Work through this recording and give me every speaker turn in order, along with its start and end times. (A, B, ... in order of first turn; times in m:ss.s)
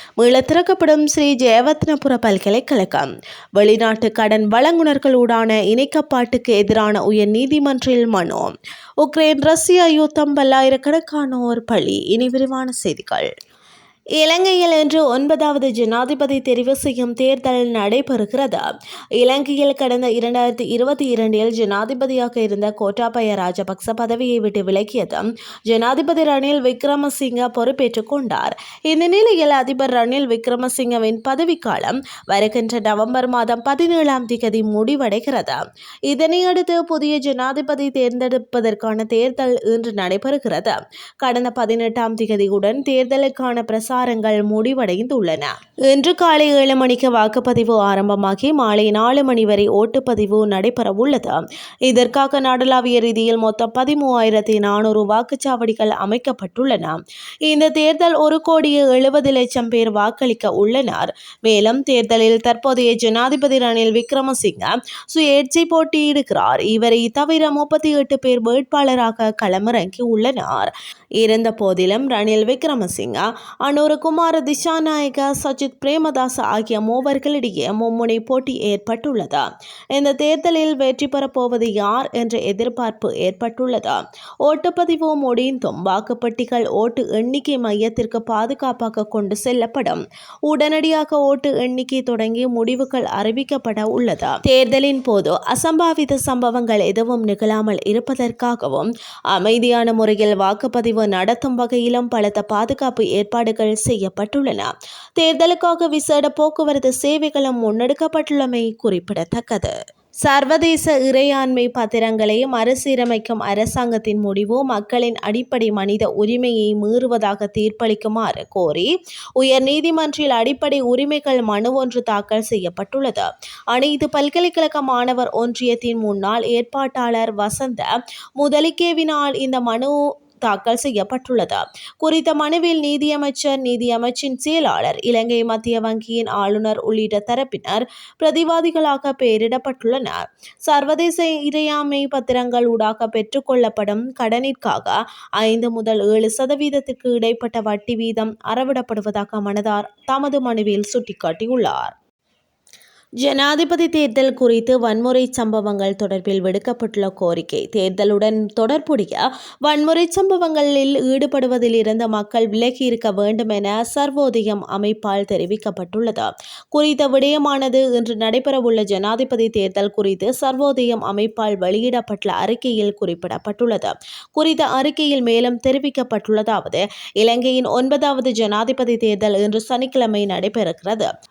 0:00.2-0:13.3 A
0:14.2-0:18.6 A
0:19.2-2:31.9 A
2:33.2-3:01.1 A